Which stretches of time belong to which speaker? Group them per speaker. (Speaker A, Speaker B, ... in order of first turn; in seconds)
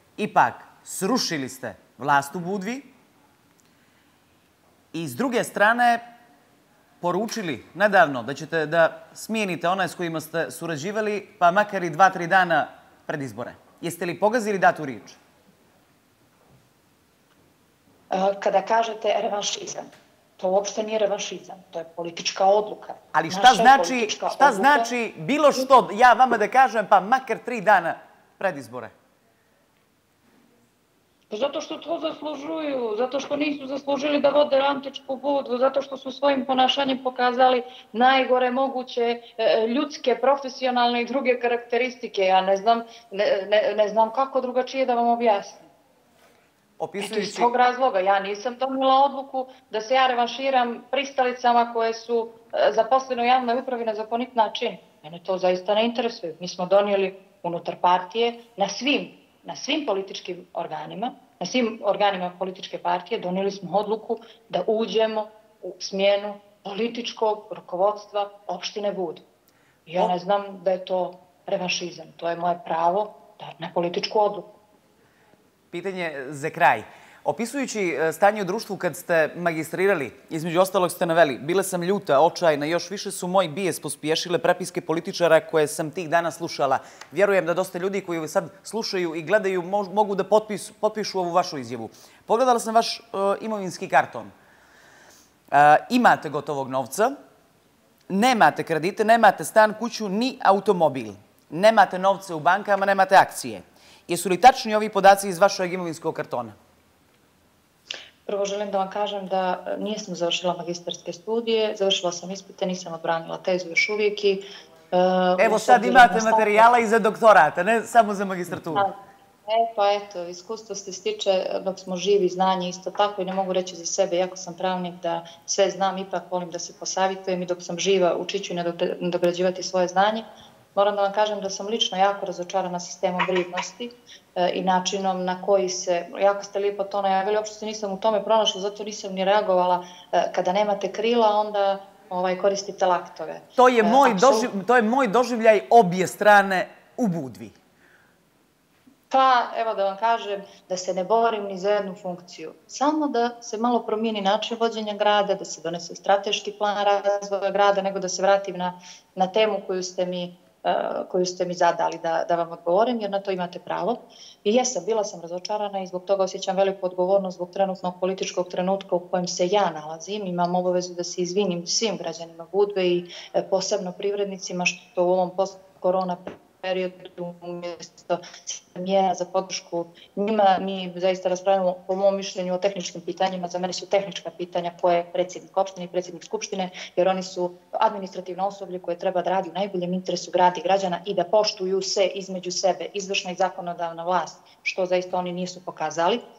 Speaker A: 0.2-2.9, 4.9-6.0, 7.0-15.2, 23.1-28.9, 46.8-47.5, 75.7-94.3, 95.5-97.1, 98.1-106.5, 115.4-118.9, 143.6-147.5
Speaker B: 18.1-24.9, 31.3-45.6, 47.0-69.2, 69.9-74.5, 108.2-116.6, 119.5-144.5, 149.1-196.2